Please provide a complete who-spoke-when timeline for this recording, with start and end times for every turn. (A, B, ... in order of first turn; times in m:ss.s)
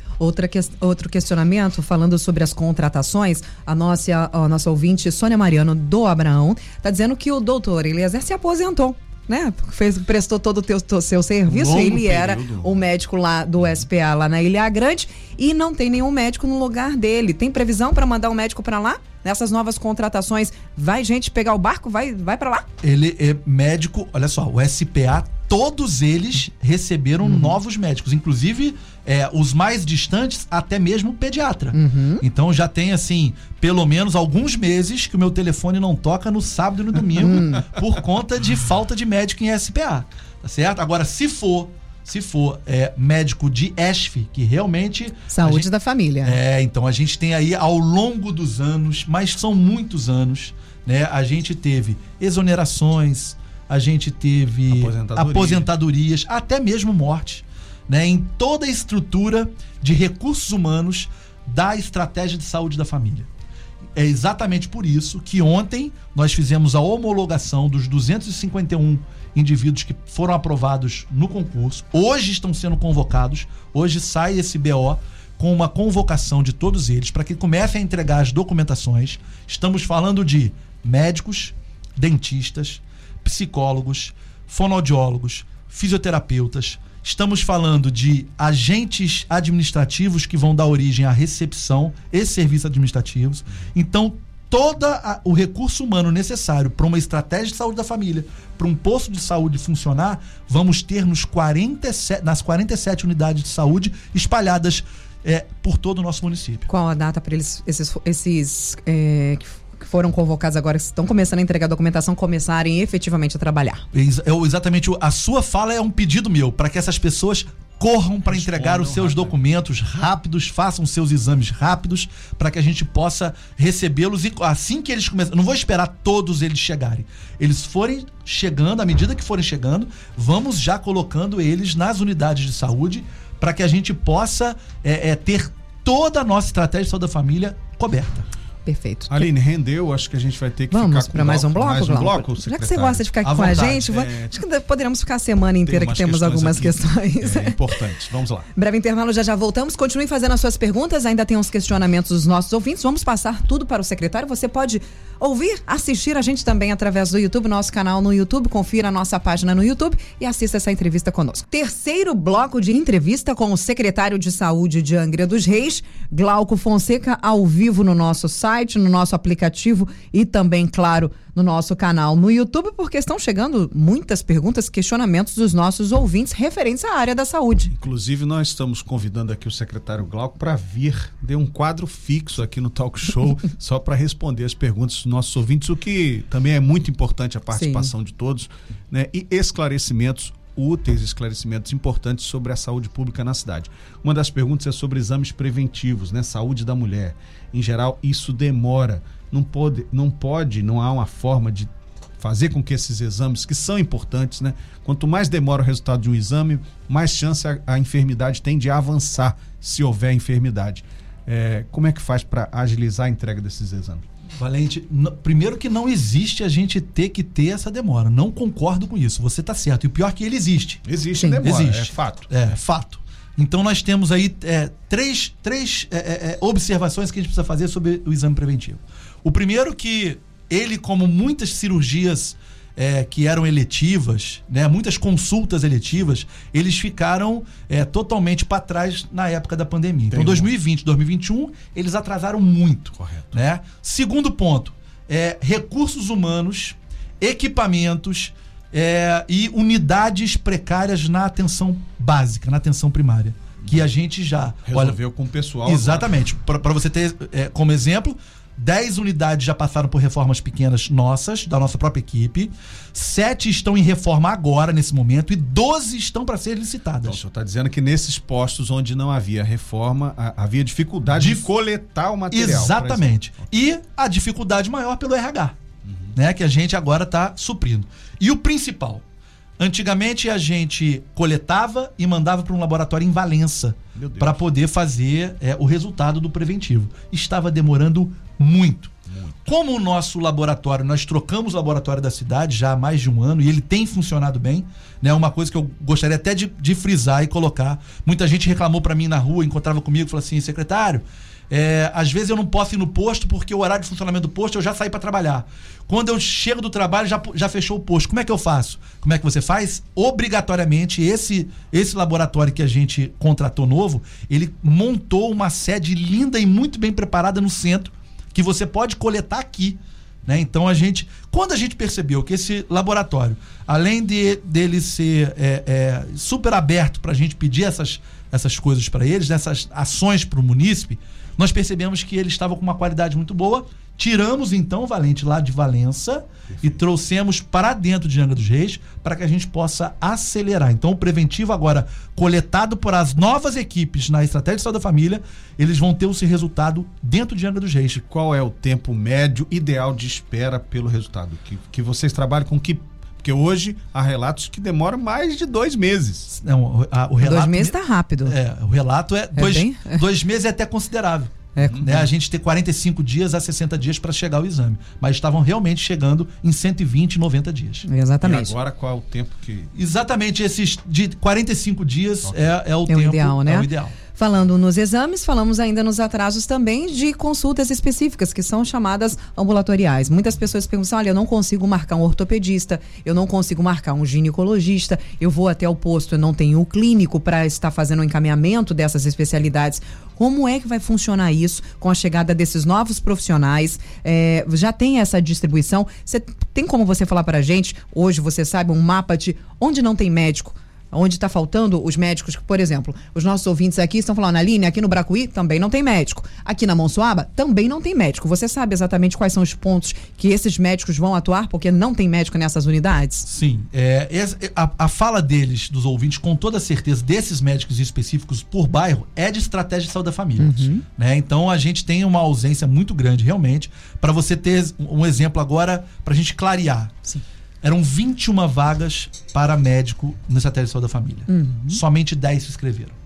0:00.2-0:22.7 A
0:11.5-0:12.8 B
0:22.8-0:45.7 C
0:27.2-0:27.5 A
0:31.7-0:32.2 A
0:37.2-0:37.6 A
0:45.3-0:46.4 A
0:46.2-1:03.3 C
0:54.7-0:55.7 B
1:03.9-1:46.7 C
1:46.7-1:53.8 A
1:53.9-2:18.3 C
1:58.2-1:59.4 B
2:18.6-2:19.3 A
2:19.1-2:24.4 B
2:20.7-2:27.8 A
2:23.2-2:24.0 C
2:25.6-2:28.5 B
2:28.5-2:57.7 A
2:57.8-3:34.0 B
3:07.5-3:07.9 A
3:34.4-3:40.8 C
3:40.8-3:42.5 B
3:41.1-3:41.4 A
3:41.4-4:15.0 C
4:00.1-4:00.5 B
4:03.0-4:03.3 B
4:14.6-4:16.1 B
4:15.6-4:27.2 C
4:27.0-4:33.1 B
4:31.1-4:31.5 C
4:32.3-4:35.6 C
4:35.8-4:36.1 B
4:36.1-4:39.0 C
4:39.6-4:48.9 C
4:43.9-4:44.4 B
4:49.1-4:49.4 B
4:49.4-5:48.0 C
5:48.1-5:56.3 B
5:56.3-6:07.8 C
5:57.2-5:58.3 A
5:59.4-6:00.0 A
6:01.6-6:02.0 A
6:07.8-6:08.5 A
6:08.2-6:09.7 B
6:09.7-6:14.0 C
6:12.2-6:12.5 B
6:12.9-6:53.2 A
6:53.2-7:06.9 C
7:00.4-7:00.8 A
7:07.6-7:12.9 C
7:11.3-7:11.8 A